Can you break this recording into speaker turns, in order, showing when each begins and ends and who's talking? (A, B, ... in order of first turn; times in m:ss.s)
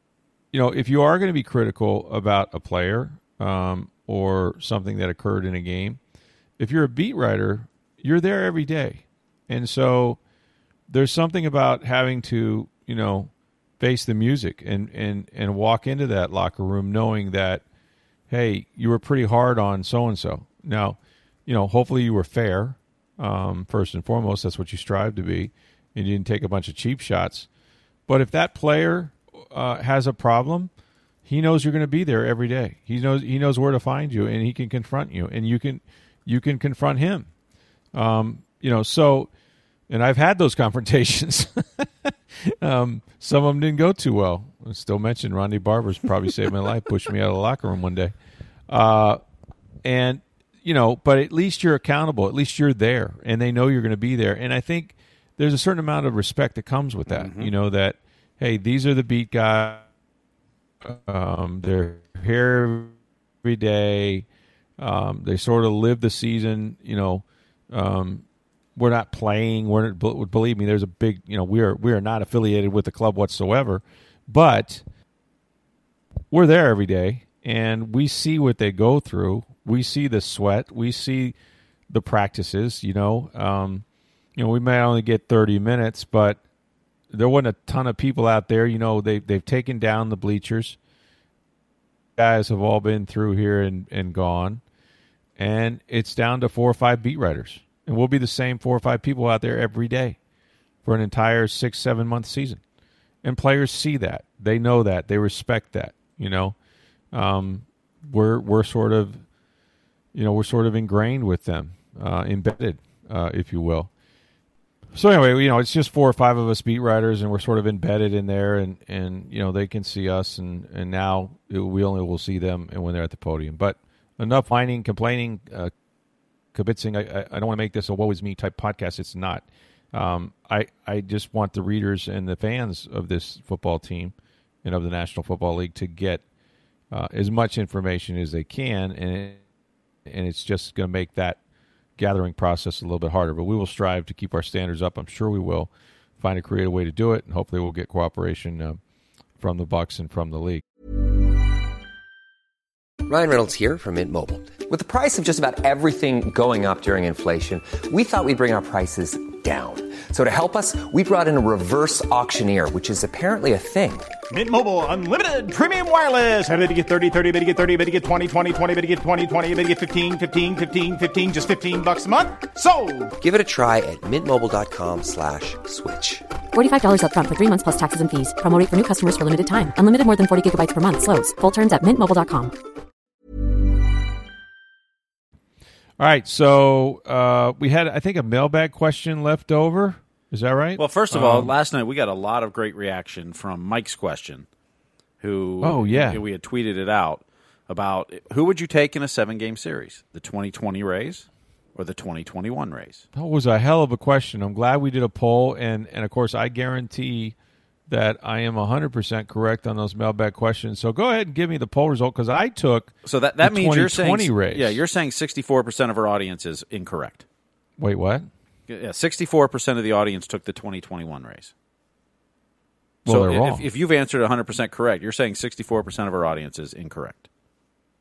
0:00.5-0:06.0 A
0:06.6-0:10.2 A
0:10.9-0:17.6 A
0:18.3-0:27.5 A
0:28.1-0:30.7 A
0:31.2-0:37.3 A
0:37.9-0:39.3 A
0:39.9-0:48.1 A
0:48.7-0:49.2 A
0:49.8-0:59.9 A
0:57.1-0:57.5 B
1:00.8-1:04.3 A
1:04.8-1:08.2 A
1:08.8-1:14.8 A
1:16.3-1:21.4 A
1:21.9-1:23.8 A
1:24.4-1:26.4 A
1:27.1-1:30.8 A
1:32.2-1:34.6 A
1:35.4-1:40.2 A
1:40.8-1:42.6 A
1:43.2-1:46.6 A
1:47.1-1:49.2 A
1:50.1-1:53.9 A
1:54.9-2:05.7 A
2:06.5-2:16.2 A
2:16.9-2:19.4 A
2:20.0-2:21.4 A
2:22.0-2:28.8 A
2:29.4-2:30.6 A
2:33.0-2:44.1 C
2:44.3-2:53.1 D
2:53.2-2:56.2 C
2:56.5-3:02.5 E
3:06.0-3:11.5 A
3:10.8-3:14.4 B
3:15.2-3:23.0 B
3:15.6-3:16.2 A
3:23.1-3:27.3 A
3:27.9-3:34.8 A
3:33.0-3:37.2 B
3:37.8-3:38.3 A
3:38.7-3:41.5 B
3:43.0-3:43.6 A
3:43.0-3:47.3 B